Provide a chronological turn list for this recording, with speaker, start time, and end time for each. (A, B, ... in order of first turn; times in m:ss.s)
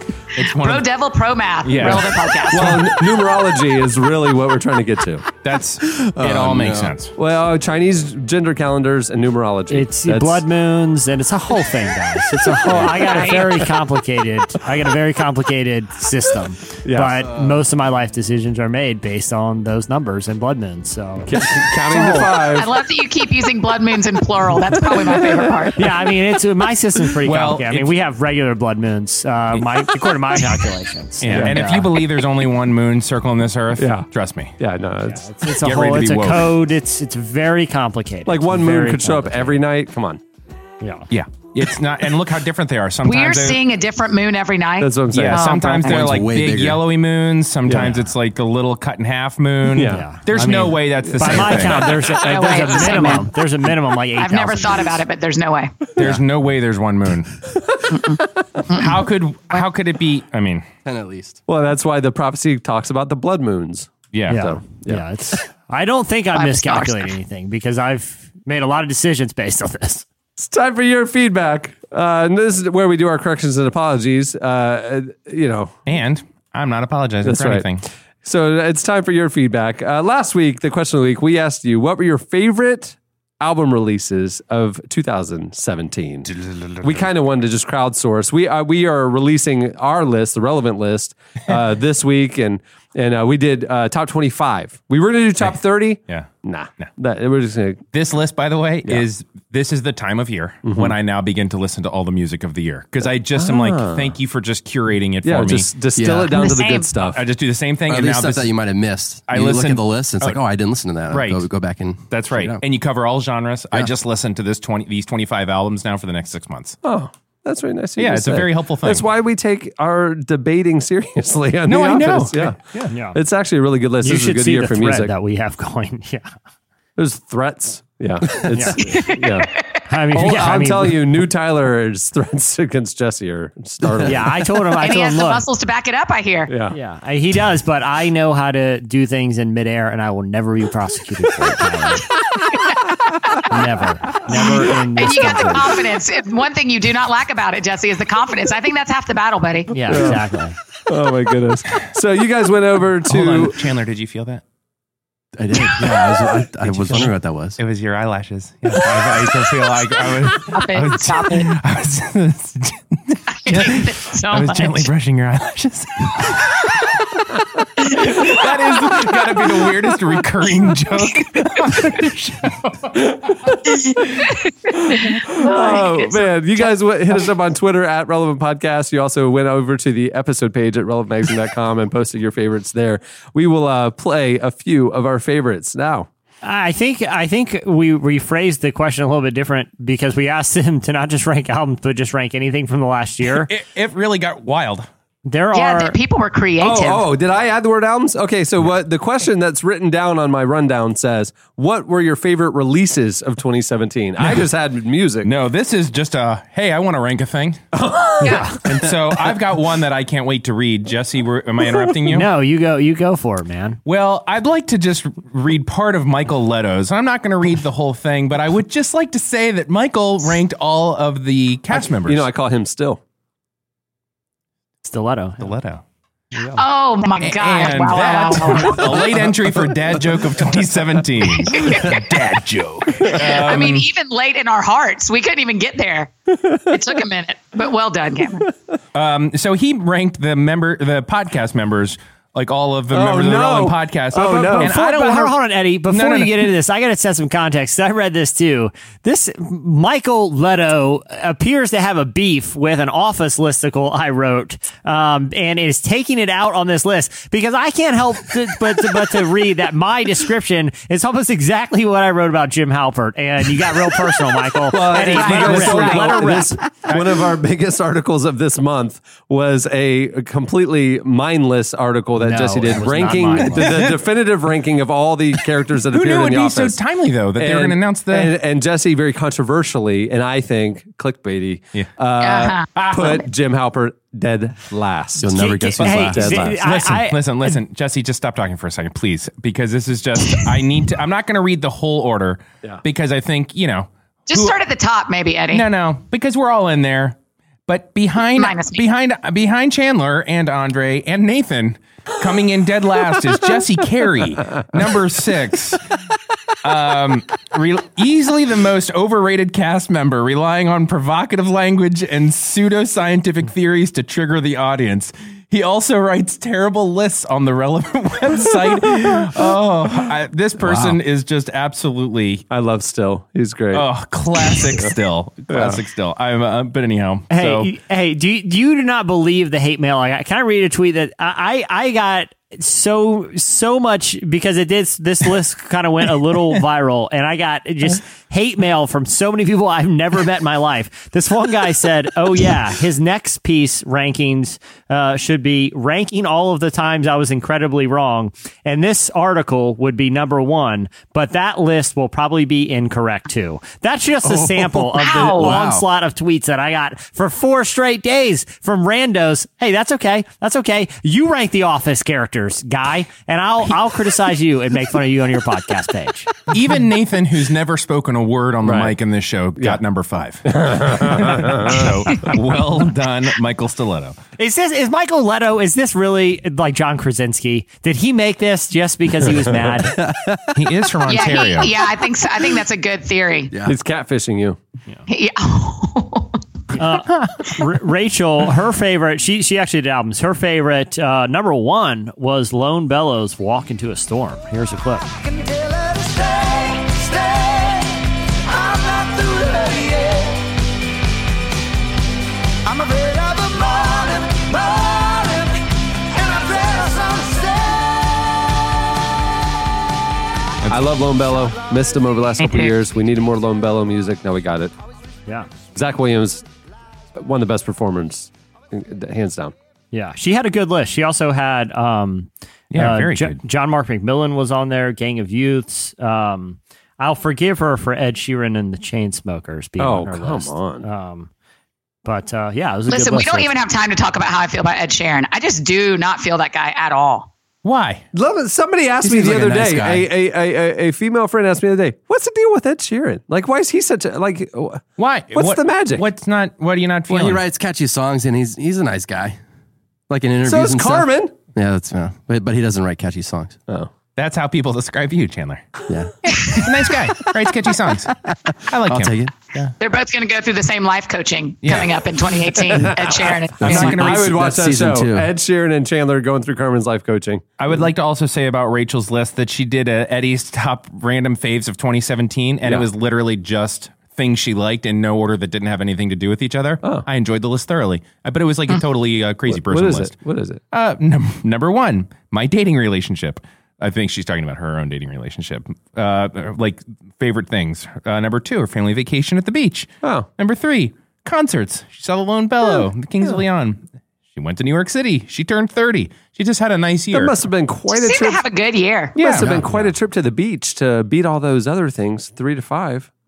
0:00.3-0:00.9 A
0:00.4-0:02.8 B
0:01.6-0:02.8 A
0:01.8-0:05.2 C
0:05.4-0:07.1 A
0:06.2-0:06.9 D
0:07.2-0:10.4 C
0:09.7-0:21.3 E
0:12.6-0:13.2 C
0:13.1-0:13.4 B
0:16.8-0:17.3 C
0:21.2-0:22.7 C
0:21.9-0:22.3 E
0:22.5-0:25.8 B
0:25.0-0:25.9 C
0:25.8-0:31.9 E
0:27.2-0:27.9 A
0:31.2-0:34.5 A
0:31.2-0:31.6 C
0:33.8-0:34.1 C
0:34.6-0:35.3 C
0:35.1-0:39.6 E
0:35.6-0:36.5 A
0:38.2-0:40.2 C
0:40.8-0:41.1 E
0:41.1-0:43.6 A
0:43.0-0:46.0 B
0:44.8-0:45.5 C
0:45.1-0:52.0 A
0:45.8-0:46.8 D
0:47.6-0:48.0 C
0:49.7-0:50.0 C
0:49.8-0:55.0 E
0:51.0-0:52.0 C
0:52.0-0:53.3 B
0:54.2-0:55.9 B
0:56.0-0:57.4 A
0:57.9-0:59.0 B
0:58.7-1:00.7 A
1:00.8-1:01.4 D
1:01.5-1:05.1 C
1:04.1-1:04.5 A
1:04.3-1:10.0 E
1:06.3-1:07.1 B
1:10.4-1:15.8 C
1:15.9-1:17.8 A
1:17.2-1:37.8 C
1:36.1-1:36.9 A
1:37.9-1:45.7 A
1:40.6-1:41.0 C
1:43.4-1:44.2 C
1:45.2-1:47.2 C
1:46.0-1:46.4 D
1:46.3-1:46.9 B
1:47.0-1:48.6 A
1:47.9-1:52.6 D
1:49.3-1:50.4 A
1:51.1-1:51.5 A
1:52.1-1:56.8 A
1:56.8-2:05.1 C
1:58.0-1:59.0 A
2:01.7-2:02.9 A
2:02.9-2:03.2 E
2:04.0-2:06.3 E
2:07.0-2:09.5 C
2:08.5-2:08.9 E
2:08.9-2:09.4 B
2:09.9-2:11.0 E
2:10.1-2:14.3 C
2:14.0-2:15.4 E
2:14.8-2:16.5 B
2:16.5-2:16.8 C
2:16.7-2:22.1 E
2:23.5-2:25.7 E
2:25.0-2:30.0 B
2:29.7-2:30.6 E
2:29.9-2:30.2 C
2:30.9-2:33.6 C
2:33.0-2:34.4 A
2:35.4-2:37.6 D
2:36.6-2:46.7 A
2:40.5-2:41.5 B
2:43.4-2:44.9 B
2:47.8-2:53.5 A
2:54.7-3:06.1 C
2:55.2-2:56.7 B
3:06.4-3:13.5 E
3:13.3-3:14.9 A
3:15.2-3:16.0 E
3:15.5-3:17.0 B
3:16.6-3:25.3 C
3:25.2-3:27.6 A
3:27.7-3:28.5 C
3:28.2-3:28.5 B
3:28.6-3:32.3 A
3:32.1-3:33.8 E
3:33.8-3:42.2 A
3:41.7-3:43.0 C
3:44.8-3:45.5 E
3:45.4-3:45.8 A
3:46.6-3:49.1 B
3:47.2-3:53.8 A
3:51.4-3:52.0 B
3:53.1-3:56.1 B
3:56.7-3:58.5 B
3:58.9-4:05.4 A
4:02.9-4:04.7 C
4:04.4-4:26.6 E
4:05.9-4:06.5 A
4:24.7-4:36.8 C
4:25.0-4:27.2 A
4:25.2-4:25.6 B
4:32.2-4:33.8 E
4:33.6-4:33.9 A
4:35.9-4:38.3 A
4:37.3-4:45.3 C
4:42.2-4:43.2 B
4:45.2-4:46.2 D
4:45.3-4:47.2 E
4:45.8-4:54.5 A
4:46.1-4:46.6 C
4:54.3-4:55.7 B
4:55.5-5:05.8 A
4:58.4-4:58.8 B
5:06.6-5:22.4 A
5:22.5-5:23.9 C
5:23.7-5:27.7 A
5:24.4-5:24.9 C
5:25.5-5:25.8 C
5:27.3-6:06.3 E
5:54.3-5:55.8 D
5:55.0-5:55.6 B
6:06.5-6:14.2 A
6:08.6-6:09.0 C
6:10.5-6:11.8 C
6:14.4-6:20.0 E
6:20.0-6:20.5 D
6:20.5-6:21.7 A
6:21.1-6:23.5 B
6:23.6-6:24.6 C
6:25.1-6:26.4 B
6:26.7-6:35.1 E
6:27.1-6:27.5 A
6:35.3-6:37.9 F
6:38.5-6:40.4 F
6:42.7-6:47.9 F
6:50.7-6:54.7 C
6:52.4-6:52.7 B
6:55.7-6:56.4 C
6:57.1-6:59.5 C
6:59.9-7:11.3 E
7:02.7-7:03.4 A
7:09.8-7:10.8 C
7:12.0-7:13.5 E
7:12.9-7:17.3 B
7:17.6-7:18.0 A
7:18.1-7:26.0 C
7:19.1-7:20.0 D
7:25.0-7:27.4 A
7:27.1-7:29.4 D
7:30.1-7:33.6 D
7:30.4-7:31.3 C
7:34.2-7:38.1 A
7:35.9-7:37.2 D
7:38.1-7:39.4 D
7:38.7-7:39.7 A
7:39.8-7:44.0 B
7:41.6-7:41.9 A
7:42.7-7:47.4 C
7:43.6-7:45.3 D
7:43.6-7:44.4 A
7:47.6-8:00.1 A
7:59.5-8:00.6 C
8:00.7-8:17.3 A
8:10.0-8:10.3 C
8:17.1-8:18.4 C
8:17.9-8:19.2 B
8:19.2-8:23.1 C
8:19.2-8:19.9 A